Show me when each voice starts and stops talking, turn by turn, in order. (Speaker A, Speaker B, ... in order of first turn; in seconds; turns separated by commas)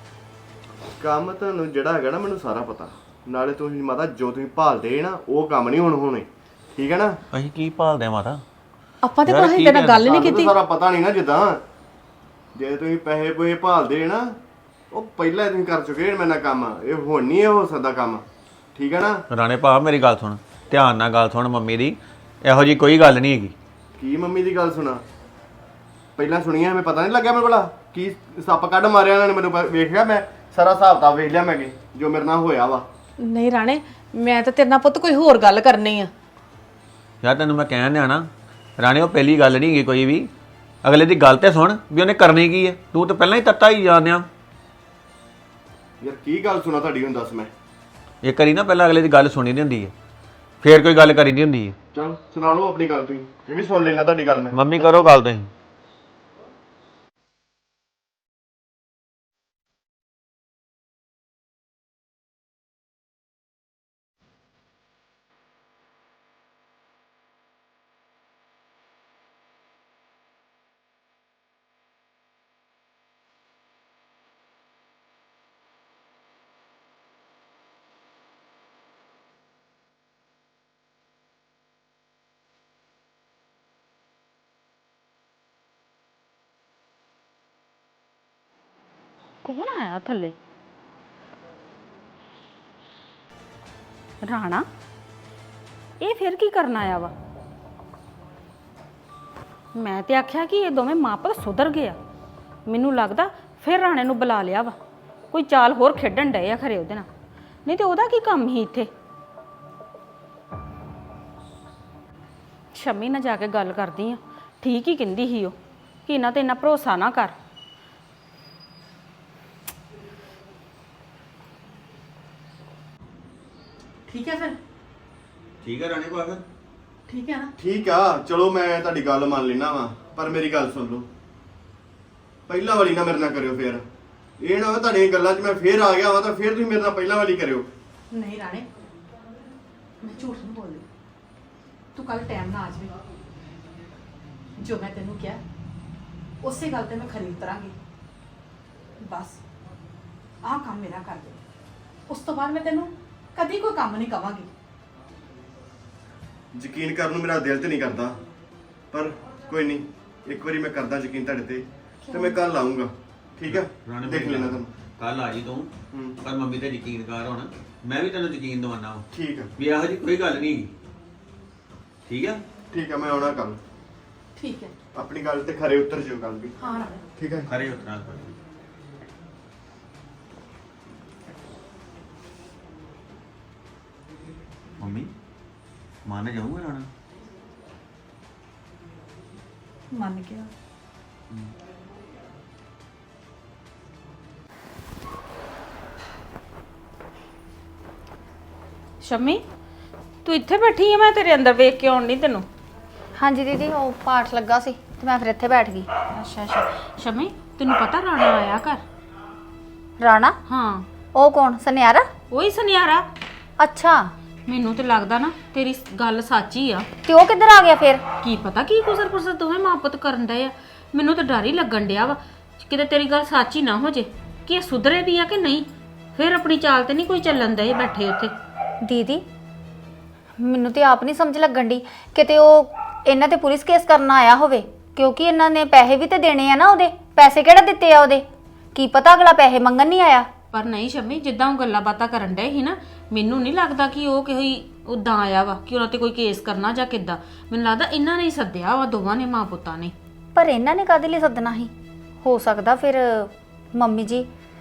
Speaker A: 1.0-7.2, Speaker B: 7.3-8.4, Speaker C: 9.0-10.6, Speaker B: 9.2-10.2, Speaker A: 10.0-11.6, Speaker A: 12.6-14.4, Speaker A: 14.9-19.2, Speaker B: 19.3-23.6, Speaker A: 24.0-25.0, Speaker A: 26.2-32.9, Speaker C: 33.2-36.1, Speaker B: 37.2-40.3, Speaker B: 40.8-44.3, Speaker A: 46.0-47.5, Speaker B: 48.2-49.9, Speaker B: 50.6-51.8, Speaker A: 51.9-54.6, Speaker B: 54.5-55.5, Speaker D: 89.4-90.4, Speaker D: 94.2-94.7, Speaker D: 96.0-97.1, Speaker D: 99.8-102.0, Speaker D: 102.7-104.8, Speaker D: 105.3-107.1, Speaker D: 107.7-108.9, Speaker D: 112.7-117.3, Speaker C: 124.1-124.6, Speaker B: 125.6-126.4, Speaker C: 127.1-127.5, Speaker A: 127.6-131.1, Speaker A: 132.5-133.9, Speaker A: 134.4-137.7, Speaker C: 138.1-138.7, Speaker C: 140.0-140.9, Speaker C: 141.9-143.0, Speaker C: 144.6-145.4, Speaker C: 146.4-147.8, Speaker C: 149.0-149.4, Speaker C: 150.4-151.4, Speaker C: 152.1-154.5, Speaker A: 156.5-158.2, Speaker A: 158.9-164.7, Speaker E: 162.1-162.4, Speaker B: 163.5-170.7, Speaker A: 165.9-166.2, Speaker A: 169.1-169.5, Speaker B: 172.1-172.4, Speaker A: 172.7-173.6, Speaker C: 174.4-174.7, Speaker A: 174.9-176.5, Speaker C: 176.6-177.0, Speaker A: 177.2-177.5, Speaker B: 177.5-178.4, Speaker B: 184.8-185.1, Speaker B: 186.1-186.9, Speaker C: 189.9-190.5, Speaker D: 199.0-199.4, Speaker D: 200.2-202.5, Speaker E: 203.2-205.9, Speaker D: 206.1-208.8, Speaker E: 210.0-210.4, Speaker D: 210.5-210.9, Speaker E: 211.1-212.1, Speaker D: 212.3-213.1, Speaker E: 213.6-214.1, Speaker D: 214.5-216.9, Speaker E: 217.1-218.0, Speaker D: 218.2-228.3, Speaker E: 228.8-229.2, Speaker E: 230.4-240.3, Speaker D: 240.5-249.9, Speaker E: 250.3-251.7, Speaker E: 252.2-254.3